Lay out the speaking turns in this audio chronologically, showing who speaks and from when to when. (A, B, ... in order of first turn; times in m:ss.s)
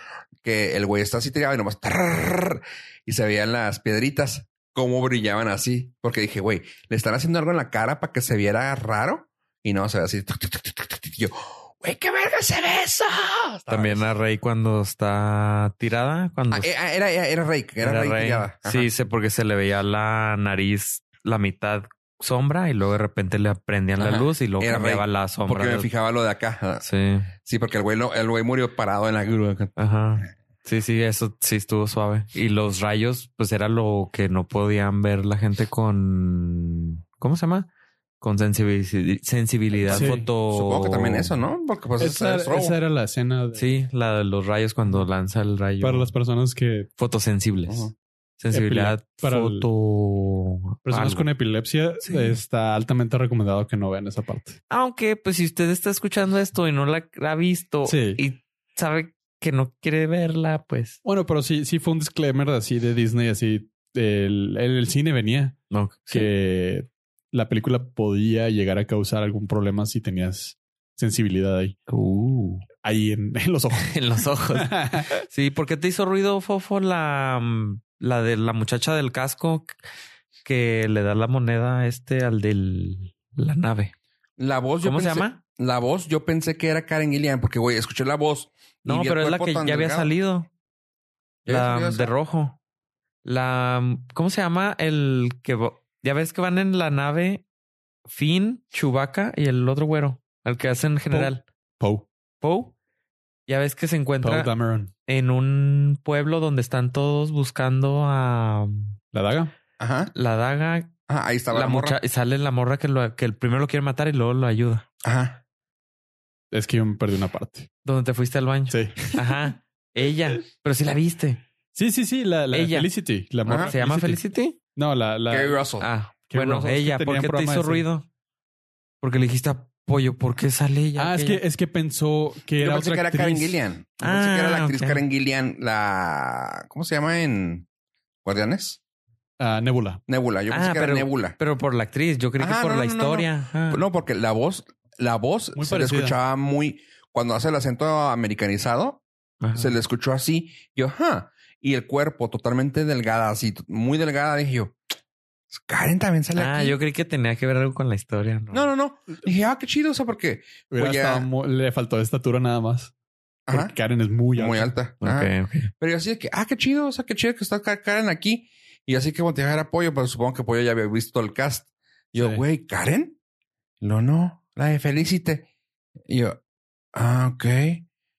0:00.4-0:14.1 A
0:13.7-0:16.7 B
0:16.5-0:18.9 A
0:17.8-0:25.9 B
0:24.0-0:26.9 A
0:26.8-0:27.3 B
0:27.4-0:29.7 A
0:29.8-0:37.7 B
0:38.2-0:41.3 B
0:39.8-0:42.8 A
0:39.9-0:40.3 C
0:42.0-0:43.8 C
0:43.6-0:46.1 B
0:45.8-0:46.9 C
0:47.0-0:51.3 B
0:47.7-0:47.9 A
0:48.5-0:49.7 C
0:50.8-0:54.6 C
0:52.0-0:52.4 B
0:54.7-1:01.0 B
0:57.9-0:58.2 C
1:01.0-1:05.6 C
1:05.7-1:06.3 B
1:06.1-1:11.8 C
1:11.9-1:12.7 B
1:12.8-1:13.9 C
1:13.8-1:19.7 B
1:14.5-1:15.2 C
1:20.4-1:23.9 B
1:24.4-1:30.1 A
1:24.8-1:25.4 B
1:28.8-1:30.5 B
1:31.5-1:32.1 A
1:31.5-1:32.6 B
1:33.2-1:37.4 B
1:38.1-1:41.4 B
1:41.1-1:42.1 C
1:42.4-1:42.7 B
1:43.5-1:44.5 B
1:44.2-1:44.9 C
1:45.1-1:49.0 B
1:49.1-1:49.5 C
1:49.8-1:50.1 A
1:50.2-1:51.0 B
1:51.1-1:52.0 A
1:51.5-1:54.8 B
1:55.0-1:55.4 A
1:56.5-1:57.7 C
1:57.8-2:01.4 B
1:58.7-1:59.5 C
2:01.7-2:04.2 C
2:02.5-2:02.9 B
2:03.5-2:03.7 A
2:03.5-2:04.6 B
2:04.8-2:05.6 C
2:05.3-2:05.9 A
2:05.8-2:08.0 B
2:06.3-2:07.9 C
2:09.0-2:11.4 B
2:11.0-2:13.6 C
2:12.6-2:17.7 A
2:14.0-2:15.0 B
2:18.2-2:18.8 A
2:19.4-2:20.0 C
2:20.1-2:21.4 A
2:20.5-2:23.8 B
2:22.4-2:29.0 A
2:25.6-2:26.2 C
2:29.4-2:29.8 B
2:29.6-2:34.8 A
2:35.5-2:36.8 A
2:36.4-2:38.7 B
2:38.5-2:41.3 A
2:40.7-2:42.9 C
2:43.5-2:43.7 A
2:43.5-2:44.7 C
2:44.4-2:53.2 A
2:45.0-2:45.7 B
2:52.2-2:52.4 C
2:53.8-2:55.5 A
2:56.1-2:56.4 A
2:57.0-2:57.8 A